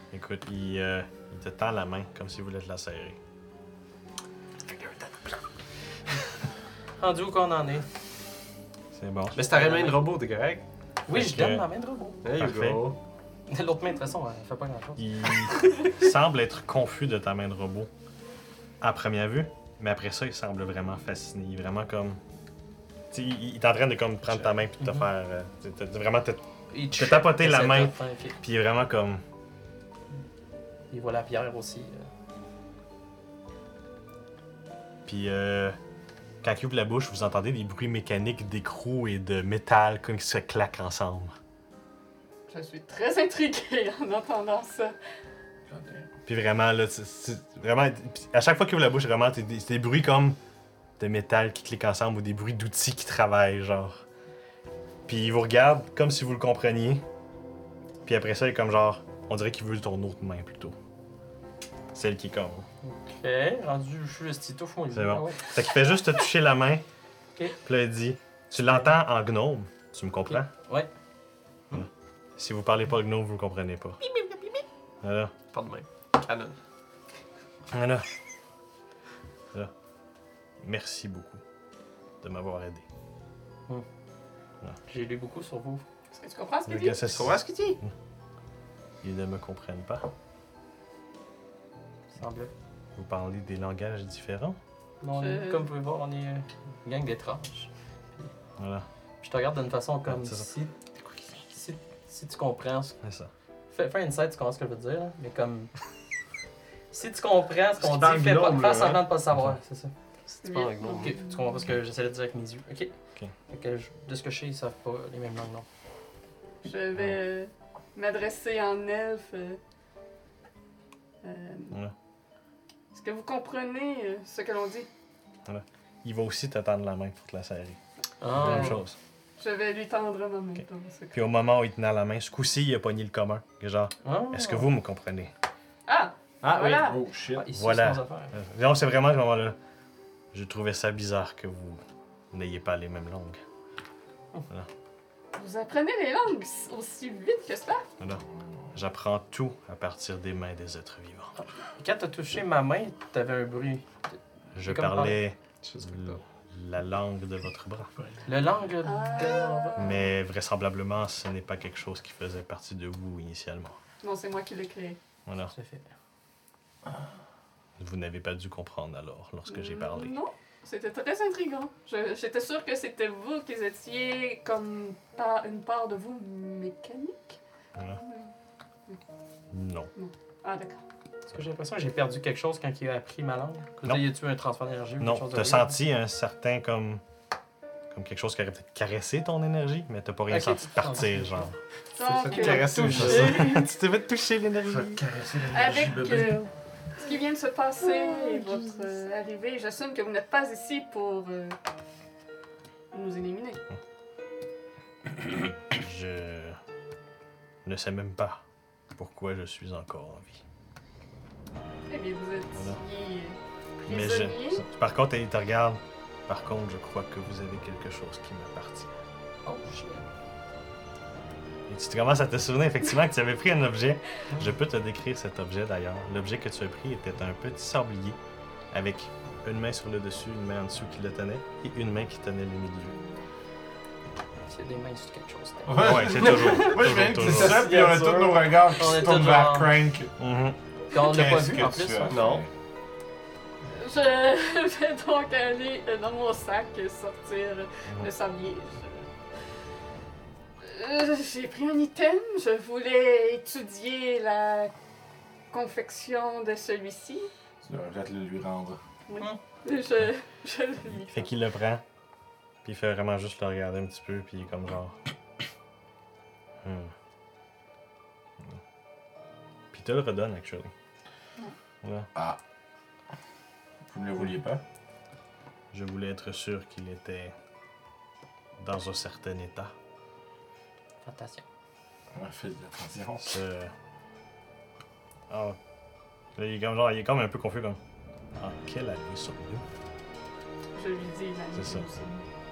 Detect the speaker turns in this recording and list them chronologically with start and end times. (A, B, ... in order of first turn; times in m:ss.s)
0:00.1-0:03.2 A
0:07.0-0:07.9 B
0:08.9-0:09.4 A
0:09.3-0:10.6 C
0:09.5-0:10.0 B
0:11.1-0:12.2 B
0:11.1-0:11.6 A
0:12.2-0:13.0 C
0:12.4-0:12.9 A
0:13.5-0:15.0 B
0:15.0-0:17.9 A
0:18.8-0:22.2 A
0:23.1-0:29.2 A
0:24.8-0:25.1 B
0:26.7-0:28.4 B
0:30.9-0:32.1 B
0:35.0-0:35.8 A
0:36.4-0:41.3 A
0:42.5-0:44.9 D
0:45.7-0:46.1 E
0:46.2-0:50.4 A
0:51.0-0:54.0 A
0:55.1-0:57.0 A
0:58.0-1:00.7 A
1:01.9-1:02.6 A
1:02.8-1:05.4 B
1:04.9-1:06.8 A
1:07.6-1:10.5 A
1:08.6-1:08.9 B
1:10.3-1:10.9 B
1:11.7-1:14.0 A
1:15.0-1:15.3 A
1:15.5-1:16.6 C
1:17.7-1:18.0 A
1:20.6-1:21.4 A
1:22.2-1:22.8 A
1:24.9-1:25.8 B
1:26.1-1:27.0 D
1:26.7-1:27.9 A
1:27.1-1:27.8 C
1:29.0-1:30.1 A
1:32.1-1:32.5 B
1:33.0-1:34.6 A
1:35.0-1:38.3 B
1:35.2-1:35.7 D
1:38.6-1:38.8 A
1:39.2-1:40.7 B
1:40.1-1:40.4 A
1:41.5-1:43.0 B
1:43.0-1:43.3 A
1:43.7-1:45.7 B
1:46.9-1:49.9 B
1:47.8-1:49.0 C
1:50.4-1:51.2 C
1:50.4-1:51.2 D
1:50.9-1:52.9 B
1:53.5-1:55.6 B
1:56.6-1:59.6 D
2:01.2-2:01.8 D
2:02.9-2:04.9 D
2:05.4-2:07.8 A
2:08.2-2:08.8 B
2:08.3-2:09.0 A
2:08.4-2:08.8 D
2:09.4-2:11.2 D
2:11.1-2:15.3 A
2:14.0-2:14.7 B
2:15.9-2:17.0 D
2:16.4-2:17.5 E
2:16.4-2:16.9 C
2:17.3-2:18.3 B
2:17.5-2:19.6 A
2:20.3-2:23.4 A
2:25.4-2:27.8 D
2:28.7-2:31.3 A
2:31.8-2:35.2 B
2:34.5-2:37.9 A
2:35.6-2:36.2 C
2:38.0-2:38.2 E
2:38.2-2:39.7 B
2:38.8-2:40.1 D
2:39.8-2:43.8 A
2:44.0-2:45.0 D
2:45.2-2:45.5 A
2:45.5-2:45.8 B
2:47.8-2:50.2 A
2:49.5-2:57.4 D
2:58.0-2:58.3 D
2:59.5-2:59.9 A
2:59.9-3:00.8 D
3:01.3-3:05.7 B
3:05.0-3:07.0 A
3:07.9-3:11.6 A
3:10.3-3:11.5 B
3:11.9-3:13.7 D
3:12.0-3:13.4 C
3:12.2-3:13.5 B
3:12.6-3:13.1 E
3:12.9-3:15.0 A
3:14.6-3:16.4 E
3:15.5-3:16.4 D
3:17.0-3:21.6 D
3:22.9-3:23.6 D
3:25.4-3:26.6 A
3:27.6-3:28.4 A
3:28.9-3:30.4 A
3:31.9-3:34.6 D
3:33.8-3:38.9 A
3:39.4-3:40.0 B
3:41.7-3:48.2 A
3:48.7-3:53.0 A
3:54.5-3:56.0 B
3:55.6-4:00.1 E
3:55.8-3:57.7 A
3:56.2-3:56.6 C
3:57.2-3:58.4 C
3:58.8-3:59.8 B
4:00.2-4:00.6 A
4:00.9-4:02.3 B
4:00.9-4:02.5 E
4:02.1-4:02.4 C
4:03.7-4:09.1 D
4:10.6-4:14.7 D
4:15.5-4:17.3 D
4:17.6-4:18.8 E
4:19.1-4:21.3 D
4:20.9-4:21.8 A
4:22.6-4:25.0 A
4:26.6-4:26.9 A
4:29.7-4:30.7 A
4:31.8-4:32.1 A
4:33.9-4:34.6 E
4:35.7-4:37.3 A
4:38.6-4:39.7 A
4:41.0-4:41.4 B
4:42.1-4:43.4 E
4:43.2-4:43.7 A
4:45.3-4:45.6 A
4:46.4-4:47.8 A
4:48.4-4:49.6 A
4:50.8-4:52.2 D
4:51.5-4:51.8 A